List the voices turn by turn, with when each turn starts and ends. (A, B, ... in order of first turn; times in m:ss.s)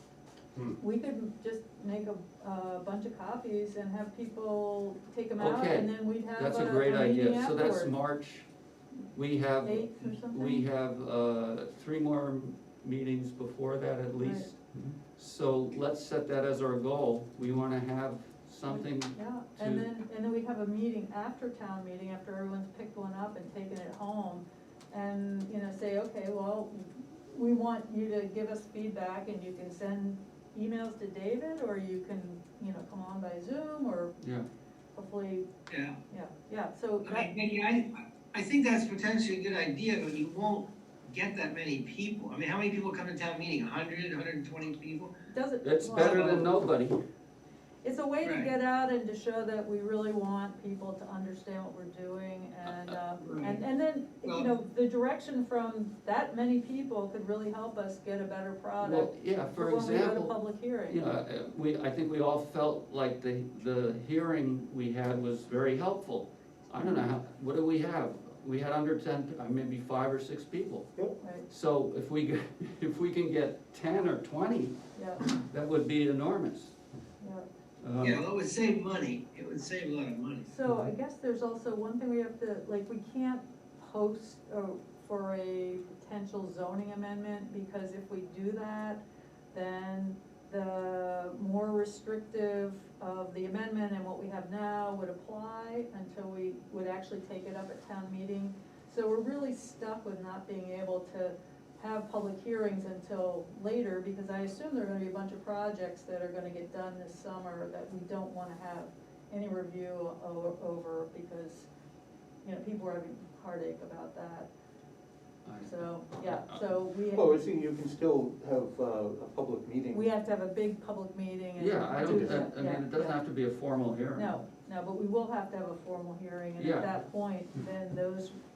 0:00.8-0:07.9 A
0:05.4-0:08.5 B
0:09.1-0:19.9 B
0:09.6-0:10.7 A
0:14.2-0:14.5 A
0:18.6-0:34.2 A
0:34.2-0:34.5 B
0:35.0-0:35.5 A
0:35.7-0:36.0 C
0:36.1-0:37.3 A
0:37.0-0:45.2 C
0:45.3-0:46.5 A
0:45.6-0:47.0 B
0:46.0-0:46.5 C
0:47.8-1:01.0 A
0:48.2-0:48.5 C
0:52.6-0:53.0 B
0:53.2-0:53.6 C
0:58.8-1:10.9 B
1:11.5-1:14.8 B
1:15.0-1:15.3 A
1:15.3-1:16.8 B
1:17.2-1:17.5 A
1:17.8-1:18.2 B
1:18.0-1:20.5 C
1:20.5-1:29.0 A
1:29.5-1:51.7 A
1:52.4-1:54.5 A
1:55.4-1:56.6 B
1:55.6-1:57.4 A
1:57.1-2:00.1 D
1:59.9-2:03.2 A
2:01.6-2:04.4 B
2:02.0-2:02.5 D
2:04.2-2:08.4 A
2:06.6-2:06.9 B